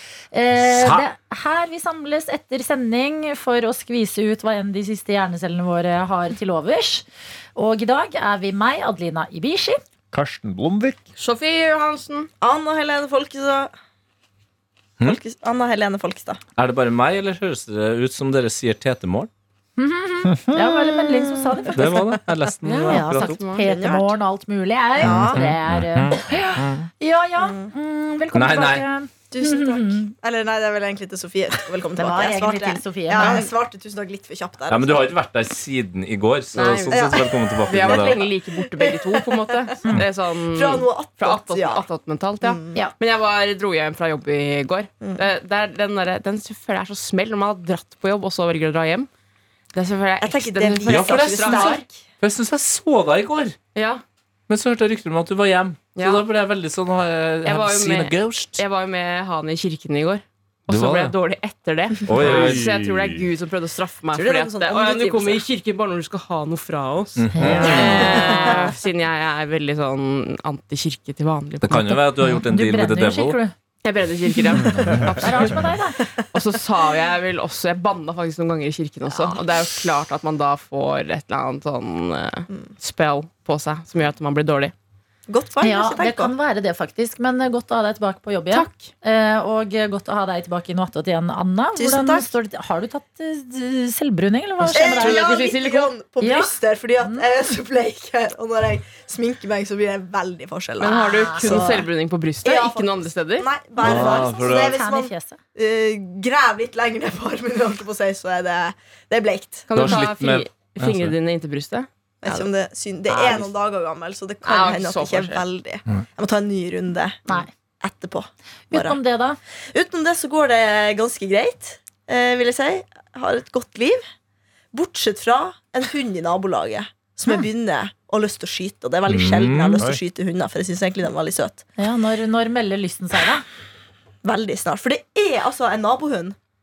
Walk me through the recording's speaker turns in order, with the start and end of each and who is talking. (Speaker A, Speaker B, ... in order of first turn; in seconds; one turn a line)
Speaker A: 0.3-9.8
Speaker B: 0.6-1.1
Speaker C: 10.1-11.0
Speaker D: 11.2-12.3
Speaker E: 12.4-13.7
Speaker E: 15.0-16.4
Speaker B: 16.6-19.3
Speaker A: 19.8-22.0
Speaker E: 20.5-22.2
Speaker B: 21.8-23.5
Speaker D: 22.6-23.7
Speaker A: 22.8-30.1
Speaker E: 23.6-24.1
Speaker E: 25.0-25.4
Speaker B: 25.0-26.9
Speaker E: 27.4-27.7
Speaker B: 28.3-28.8
Speaker E: 29.3-35.1
Speaker A: 32.0-33.5
Speaker B: 34.7-38.3
Speaker D: 36.5-37.1
Speaker E: 36.5-41.9
Speaker D: 37.7-49.1
Speaker E: 42.4-42.8
Speaker D: 49.7-51.8
Speaker E: 50.2-52.0
Speaker B: 50.9-53.6
Speaker D: 53.8-54.0
Speaker B: 54.5-58.6
Speaker D: 56.0-56.2
Speaker D: 57.5-72.0
Speaker B: 60.7-61.1
Speaker B: 62.1-62.7
Speaker C: 62.1-63.3
Speaker E: 64.1-65.5
Speaker B: 67.2-68.1
Speaker C: 67.4-67.9
Speaker A: 67.4-68.5
Speaker E: 67.6-68.7
Speaker B: 71.6-73.4
Speaker A: 71.8-73.5
Speaker D: 73.8-75.6
Speaker A: 74.5-76.1
Speaker B: 74.7-75.6
Speaker D: 76.3-84.7
Speaker E: 79.1-79.5
Speaker E: 85.3-86.3
Speaker A: 85.6-95.3
Speaker D: 88.5-88.9
Speaker E: 91.8-92.3
Speaker D: 94.6-95.9
Speaker E: 94.7-101.8
Speaker A: 96.2-97.2
Speaker D: 100.8-103.5
Speaker A: 100.8-101.9
Speaker E: 102.4-109.9
Speaker B: 103.8-104.8
Speaker A: 103.9-105.4
Speaker D: 109.7-112.5
Speaker B: 109.7-111.1
Speaker E: 112.2-117.3
Speaker B: 113.1-113.5
Speaker D: 114.4-115.4
Speaker E: 117.8-119.0
Speaker A: 118.7-119.4
Speaker E: 119.7-124.0
Speaker E: 124.7-131.7
Speaker B: 129.1-129.8
Speaker A: 131.8-133.4
Speaker E: 134.2-136.3